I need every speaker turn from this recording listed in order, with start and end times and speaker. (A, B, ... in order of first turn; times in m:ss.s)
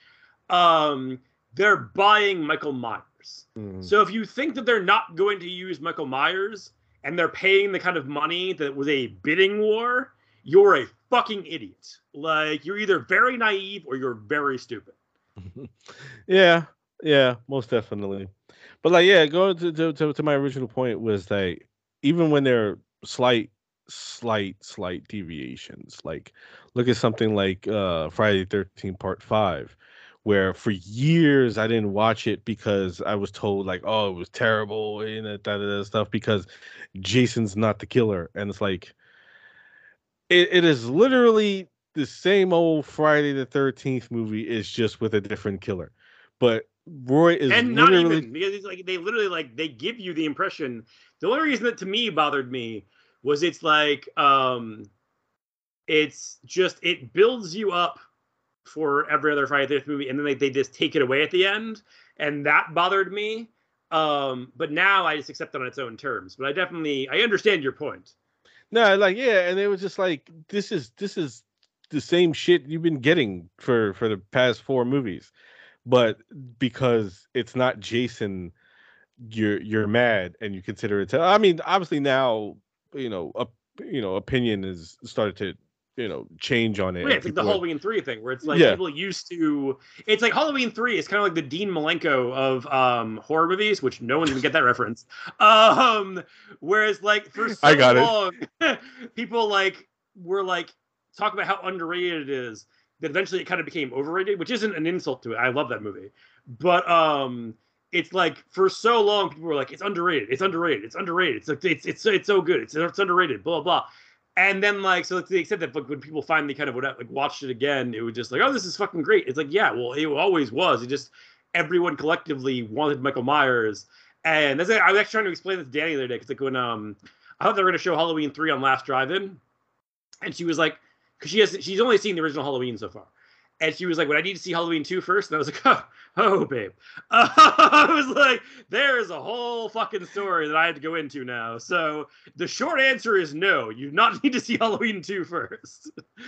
0:00.5-0:15.0 A
0:03.6-0:03.9 B
0:15.5-0:18.3 B
0:18.8-0:39.0 B
0:40.3-0:48.2 B
0:47.5-0:54.9 A
0:55.9-0:58.0 A
0:58.6-1:08.1 A
1:08.7-1:15.3 B
1:15.9-1:18.5 B
1:19.2-1:27.6 B
1:27.0-2:09.4 A
1:28.5-1:28.8 B
1:37.6-1:38.1 B
2:10.2-2:25.9 A